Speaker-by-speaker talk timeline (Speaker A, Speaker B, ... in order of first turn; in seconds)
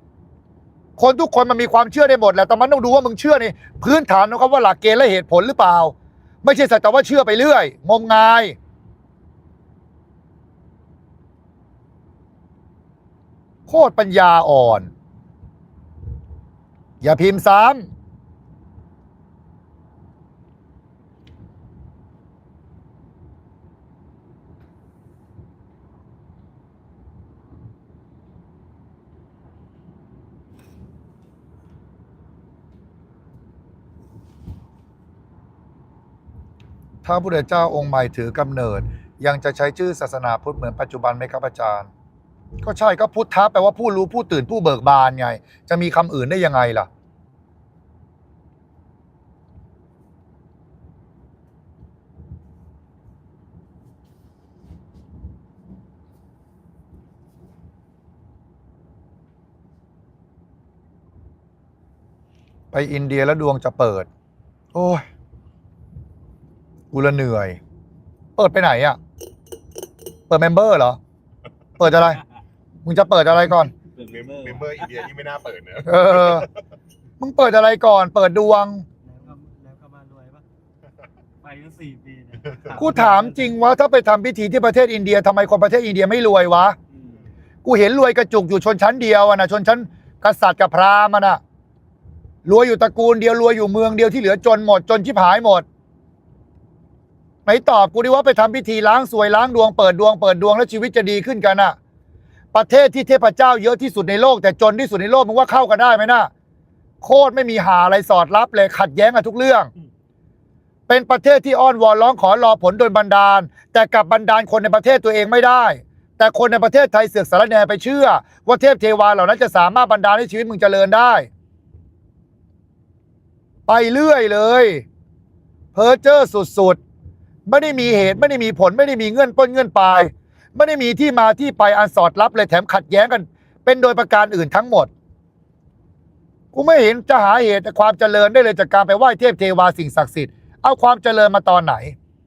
Speaker A: 1.0-8.6, 13.7-14.9, 17.0-17.9, 37.0-41.9, 42.6-46.9, 62.7-64.1, 64.7-65.0, 66.9-67.6, 68.3-69.0, 70.3-71.0, 71.8-72.2, 72.8-73.7, 75.8-76.5, 77.2-78.8, 82.7-86.8, 87.6-91.4, 92.4-95.6, 97.5-101.8, 102.5-106.3, 107.0-109.7, 110.9-121.3, 123.7-124.8, 125.7-126.8, 127.5-134.9, 136.5-141.9
Speaker B: 73.8-74.8, 79.0-80.4, 81.4-83.4
Speaker C: 74.0-76.5